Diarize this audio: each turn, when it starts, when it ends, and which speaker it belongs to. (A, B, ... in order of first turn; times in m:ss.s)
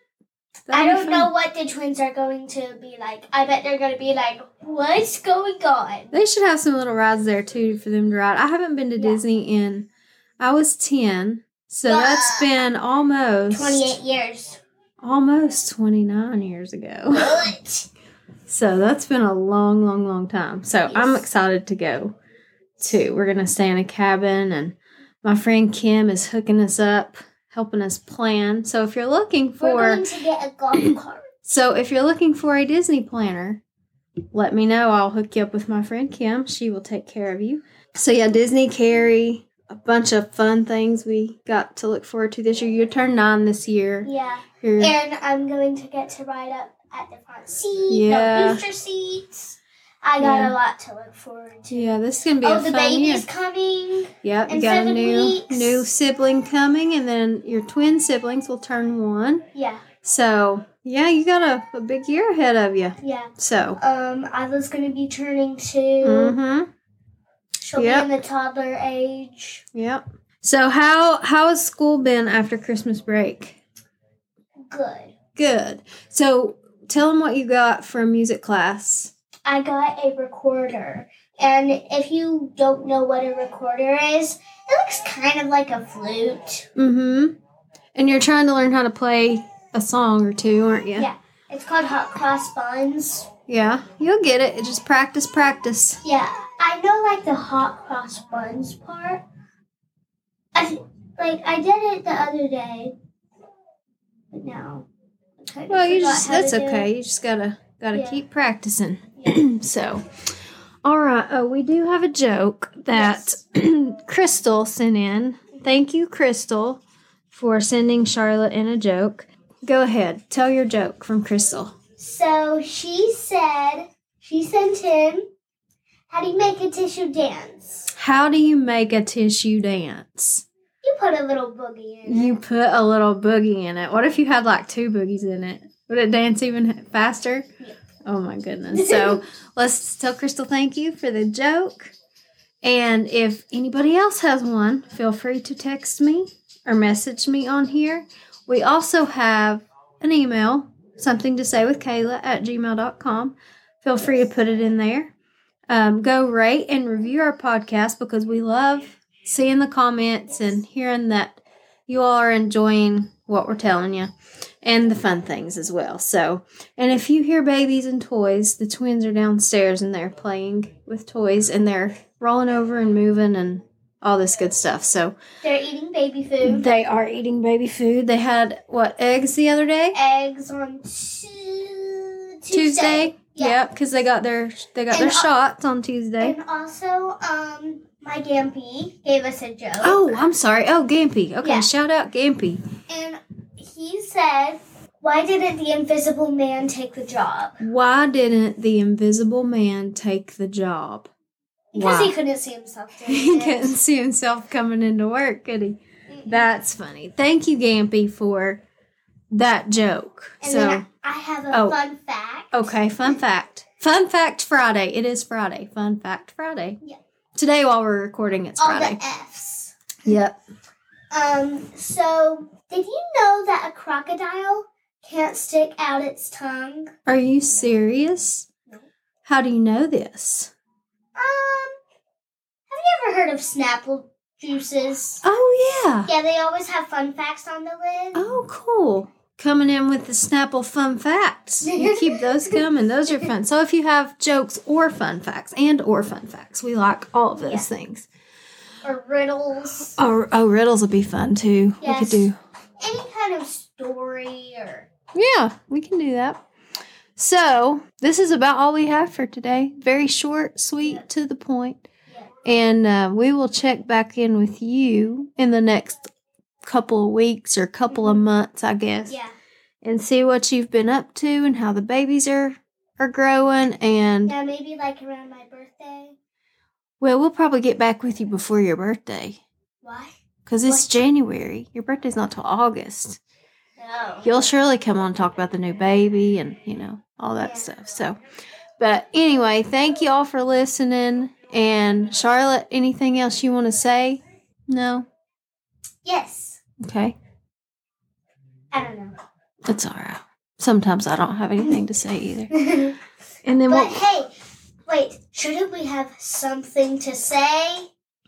0:00.7-0:01.3 A
0:00.7-0:06.1 B
0:06.1-0:09.9 A
0:09.0-0:09.2 B
0:10.4-0:14.0 A
0:11.8-0:12.5 B
0:13.5-0:14.6 B
0:15.0-0:17.5 A
0:17.1-0:17.9 B
0:18.5-0:22.1 A
0:20.9-0:21.3 B
0:22.8-0:30.0 A
0:29.6-0:31.4 B
0:30.8-0:33.6 A
0:34.3-0:44.1 A
0:44.0-0:55.8 B
0:44.6-0:45.0 A
0:47.9-0:48.6 A
0:50.2-0:50.5 A
0:51.7-0:53.2 A
0:54.2-0:59.4 A
0:59.5-0:59.8 B
1:00.0-1:03.8 A
1:03.0-1:06.4 B
1:06.0-1:06.7 A
1:07.6-1:09.6 B
1:07.8-1:08.1 A
1:09.7-1:13.6 A
1:14.7-1:15.1 B
1:15.4-1:19.1 A
1:19.4-1:26.7 B
1:26.8-1:27.4 A
1:27.9-1:31.1 A
1:31.0-1:33.3 B
1:33.5-1:36.0 A
1:36.0-1:39.2 B
1:40.5-1:42.9 B
1:44.3-1:44.9 B
1:45.4-1:46.9 B
1:45.7-1:50.0 A
1:47.9-1:48.2 B
1:50.8-2:01.7 A
1:52.9-1:53.4 B
2:02.0-2:05.3 B
2:06.1-2:07.9 B
2:08.0-2:10.4 A
2:10.8-2:12.4 B
2:12.0-2:17.4 A
2:18.0-2:21.9 A
2:18.7-2:19.2 B
2:22.6-2:35.1 A
2:35.7-2:44.1 A
2:44.6-2:55.1 A
2:55.4-2:56.7 B
2:56.4-3:00.0 A
2:59.9-3:03.7 B
3:02.5-3:06.4 A
3:04.9-3:05.3 B
3:06.2-3:10.2 B
3:09.8-3:12.6 A
3:11.4-3:11.7 B
3:12.9-3:17.6 B
3:17.6-3:21.1 A
3:21.7-3:23.8 B
3:21.7-3:22.1 A
3:23.0-3:28.6 A
3:26.1-3:26.5 B
3:29.3-3:30.8 A
3:30.4-3:32.6 B
3:31.5-3:31.8 A
3:32.5-3:36.8 A
3:37.4-3:39.0 A
3:38.6-3:39.7 B
3:40.0-3:40.4 A
3:41.1-3:46.9 B
3:47.1-3:48.5 A
3:49.2-3:50.5 A
3:51.2-3:51.8 B
3:52.7-3:55.2 B
3:55.2-3:56.1 A
3:56.0-3:58.3 B
3:58.1-4:08.1 A
4:01.6-4:02.6 B
4:07.3-4:07.7 B
4:08.8-4:10.0 B
4:10.0-4:12.4 A
4:11.8-4:12.3 B
4:12.8-4:14.9 B
4:15.1-4:16.4 A
4:17.2-4:21.8 A
4:22.4-4:26.1 A
4:26.6-4:29.2 A
4:27.9-4:28.3 B
4:29.1-4:29.3 B
4:29.8-4:34.3 A
4:34.2-4:36.2 B
4:37.0-4:39.4 A
4:39.8-4:40.8 B
4:40.4-4:43.2 A
4:43.8-4:44.2 B
4:44.2-4:48.2 A
4:47.4-4:47.7 B
4:48.8-4:55.1 A
4:56.0-4:56.6 B
4:56.8-4:57.2 A
4:58.7-4:59.1 B
4:59.7-5:02.5 A
5:02.5-5:03.0 B
5:03.4-5:04.0 A
5:03.6-5:04.3 B
5:04.9-5:07.9 B